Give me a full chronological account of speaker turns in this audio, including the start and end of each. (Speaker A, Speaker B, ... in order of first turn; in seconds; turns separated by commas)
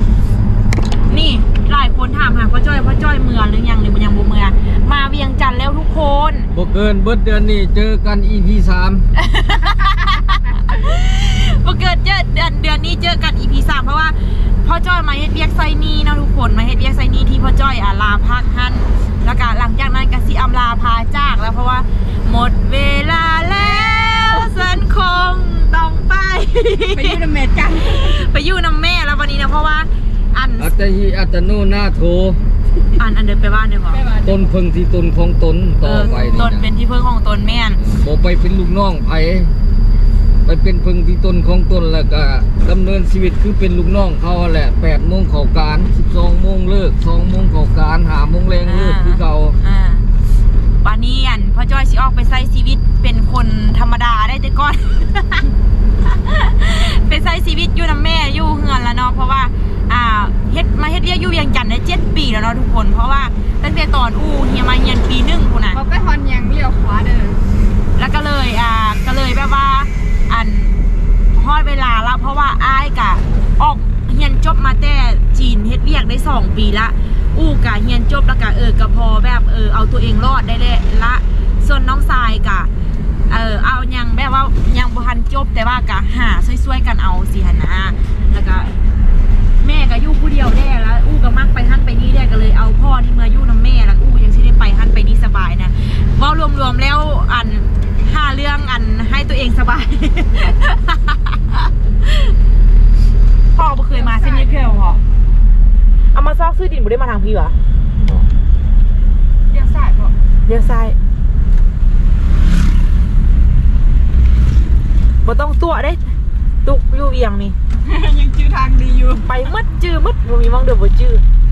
Speaker A: 1.1-6.5, Speaker B: 6.5-9.0, Speaker A: 9.1-27.2, Speaker C: 23.5-24.7, Speaker C: 26.9-28.2, Speaker A: 27.8-30.7, Speaker B: 30.6-32.4, Speaker A: 33.0-34.0, Speaker C: 33.9-34.5, Speaker B: 34.2-36.7, Speaker A: 35.8-37.8, Speaker C: 36.0-36.4, Speaker B: 37.8-39.5, Speaker B: 40.4-49.5, Speaker A: 48.6-50.1, Speaker A: 50.8-55.5, Speaker A: 56.0-65.8, Speaker C: 65.7-67.4, Speaker A: 68.0-70.8, Speaker A: 71.3-82.7, Speaker A: 83.3-88.7, Speaker A: 89.6-101.2, Speaker A: 103.5-105.0, Speaker C: 103.9-104.7, Speaker A: 106.1-108.3, Speaker C: 109.5-110.1, Speaker A: 110.5-111.0, Speaker A: 115.2-116.0, Speaker A: 116.6-117.5, Speaker C: 117.8-119.5, Speaker A: 119.2-121.2